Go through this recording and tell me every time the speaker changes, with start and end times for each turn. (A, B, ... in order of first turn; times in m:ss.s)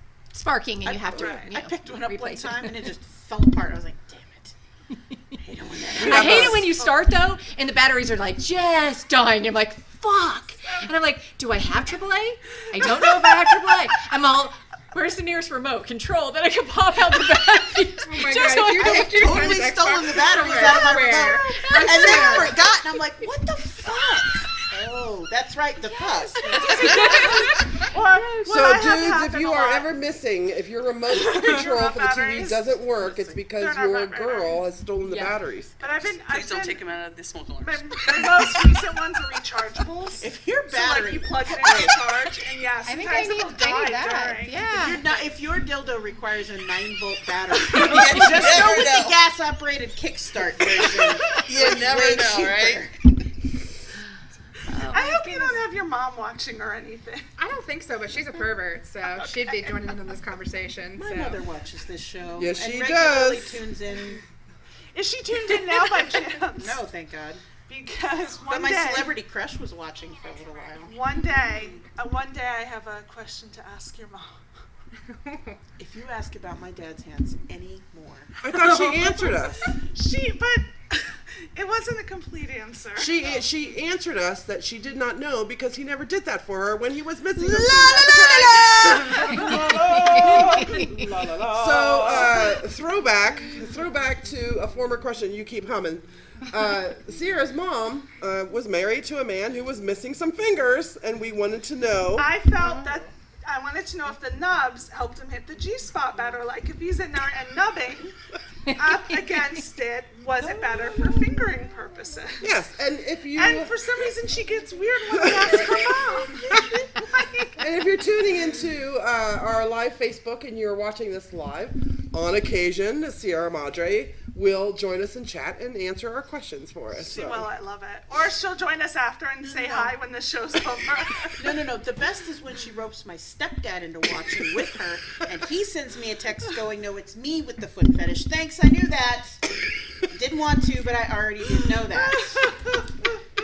0:00.3-0:02.9 A
0:00.8-0:04.5 B
0:01.1-0:01.5 C
0:05.4-0:06.7 B
0:05.9-0:06.7 D
0:06.0-0:19.2 A
0:18.0-0:22.5 E
0:18.7-0:27.6 B
0:21.6-0:22.5 A
0:25.8-0:29.9 C
0:26.6-0:27.2 F
0:28.4-0:35.7 D
0:31.1-0:32.8 C
0:33.0-0:33.4 B
0:33.5-0:34.6 C
0:35.1-0:35.3 A
0:35.8-0:36.8 C
0:36.3-0:38.8 F
0:37.6-0:44.6 C
0:40.2-0:42.0 B
0:42.8-0:45.0 A
0:44.7-0:52.9 B
0:47.6-0:49.2 F
0:47.9-0:48.2 C
0:50.7-0:52.9 F
0:54.7-0:55.6 A
0:54.9-0:57.3 C
0:57.4-1:01.4 E
0:59.2-0:59.7 C
1:01.0-1:04.2 B
1:02.4-1:03.7 D
1:04.9-1:06.8 C
1:06.5-1:07.4 B
1:07.7-1:09.1 C
1:08.5-1:11.0 B
1:10.9-1:14.4 C
1:15.2-1:15.6 E
1:15.8-1:18.3 B
1:18.4-1:19.7 D
1:18.6-1:23.4 C
1:23.0-1:29.4 D
1:27.4-1:32.6 B
1:27.9-1:28.7 F
1:29.3-1:31.4 F
1:31.5-1:42.4 D
1:42.2-1:48.1 C
1:42.6-1:43.0 B
1:48.7-1:52.5 C
1:50.4-1:52.2 B
1:52.4-1:54.1 D
1:53.3-1:57.8 C
1:55.1-1:56.9 D
1:57.6-2:07.5 D
2:07.0-2:11.6 C
2:09.4-2:09.9 B
2:11.4-2:22.6 B
2:21.9-2:22.8 C